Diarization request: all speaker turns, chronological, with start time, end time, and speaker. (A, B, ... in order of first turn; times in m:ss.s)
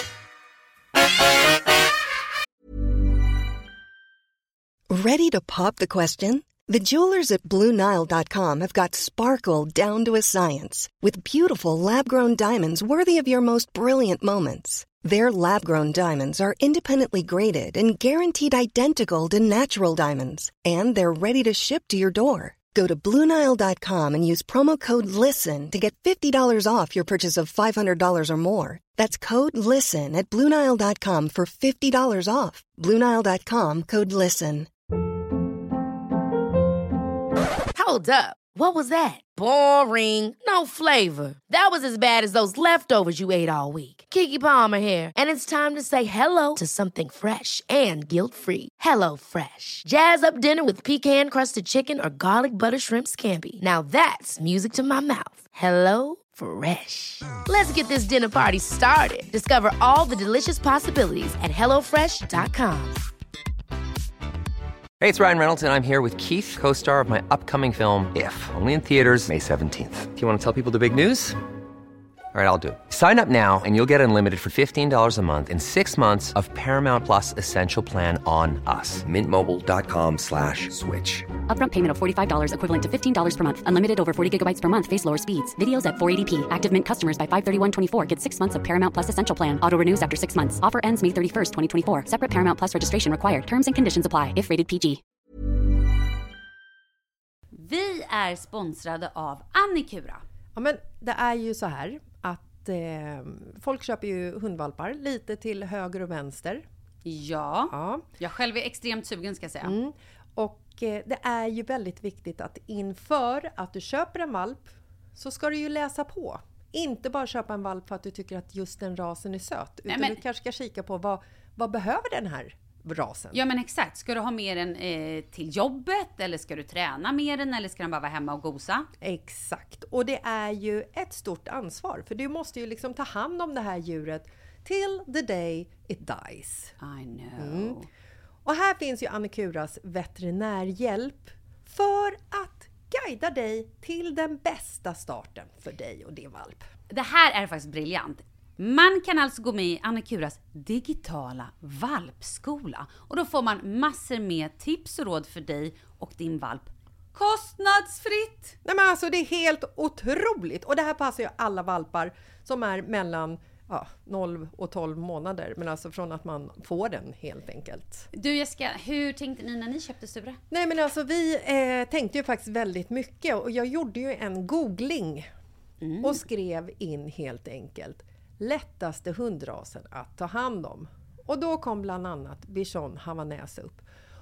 0:04.9-0:34.7 A
0:37.7-1:03.0 B
1:05.0-1:11.4 C
1:12.3-1:21.3 C
1:21.5-1:35.0 D
1:37.5-1:40.2 E
1:40.6-1:46.6 F
1:47.0-1:49.8 E
1:47.7-1:48.0 F
1:49.6-2:03.4 F
1:59.9-2:00.2 E
2:03.3-2:08.9 E
2:09.0-2:16.8 F
2:16.8-2:17.9 E
2:17.4-2:17.8 F
2:18.4-2:26.7 F
2:26.9-2:38.6 E
2:38.6-2:48.1 F
2:48.1-2:50.4 E
2:50.5-2:55.3 F
2:55.8-2:56.2 E
2:56.0-3:03.8 F